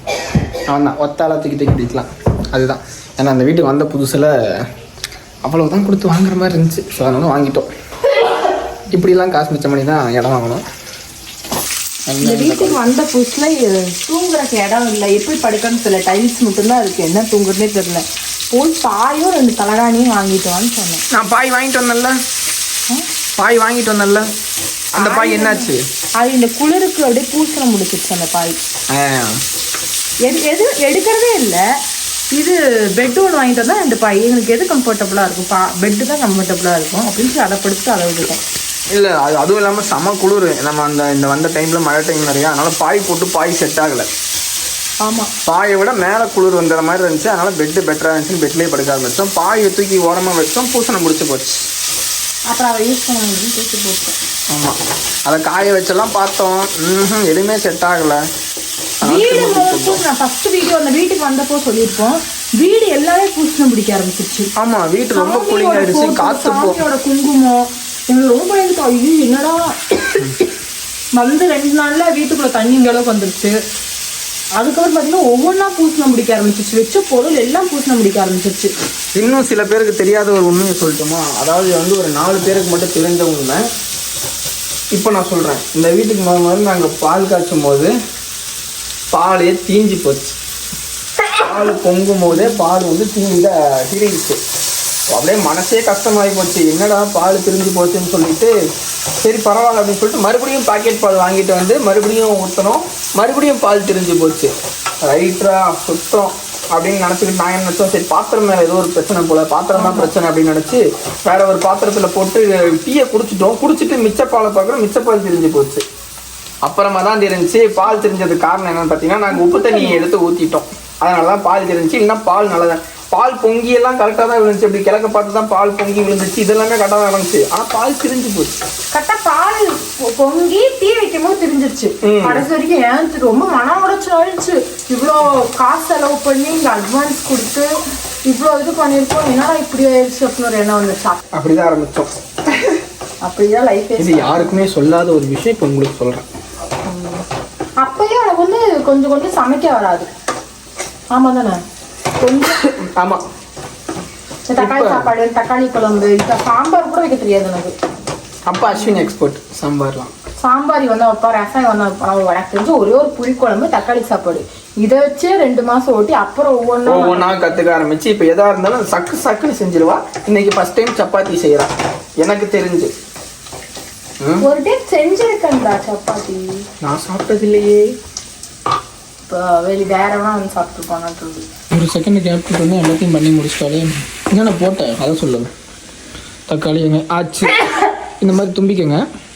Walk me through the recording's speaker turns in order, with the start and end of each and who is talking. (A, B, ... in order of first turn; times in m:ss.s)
0:00.7-0:04.7 A
0:05.4-0:07.7 A
0:08.9-0:10.6 A
0:12.1-0:12.9 A
0:12.2-0:21.0 B
0:21.1-0:22.2 A
0:23.4-0:24.3 A
0:24.9-0:25.8 A
0:25.0-0:25.7 B
0:26.2-0:28.6 B
0:28.9-0:29.4 A
0:30.2-0:31.6 B
0:32.3-0:38.4 B
0:38.9-0:44.1 A
0:45.0-0:45.3 B
0:45.4-0:51.7 A
0:52.5-0:54.2 B
0:54.5-0:58.3 A
0:59.0-1:00.0 A
0:59.0-1:04.5 B
1:04.6-1:06.8 A
1:05.1-1:10.2 B
1:11.2-1:13.6 B
1:14.6-1:18.7 B
1:19.2-1:23.7 A
1:24.9-1:27.9 A
1:29.1-1:30.4 A
1:31.4-1:34.4 A
1:35.1-1:38.5 A
1:39.2-1:44.5 A
1:45.0-1:55.8 A
1:49.8-1:50.1 B
1:56.6-2:08.6 A
1:59.3-2:00.0 B
2:08.9-2:17.7 B
2:12.0-2:12.4 A
2:18.3-2:21.2 B
2:21.3-2:22.8 A
2:23.2-2:24.5 B
2:24.0-2:26.3 A
2:26.9-2:27.2 B
2:27.8-2:30.1 B
2:31.1-2:31.6 B
2:32.2-2:32.6 B
2:32.6-2:33.2 A
2:34.4-2:37.8 B
2:34.6-2:35.1 A
2:38.5-2:40.1 A
2:40.4-2:47.4 B
2:46.8-2:52.9 A
2:54.4-2:56.6 B
2:56.8-2:57.9 A
2:59.3-3:01.4 B
3:01.7-3:05.5 A
3:06.5-3:07.6 A
3:08.2-3:09.0 A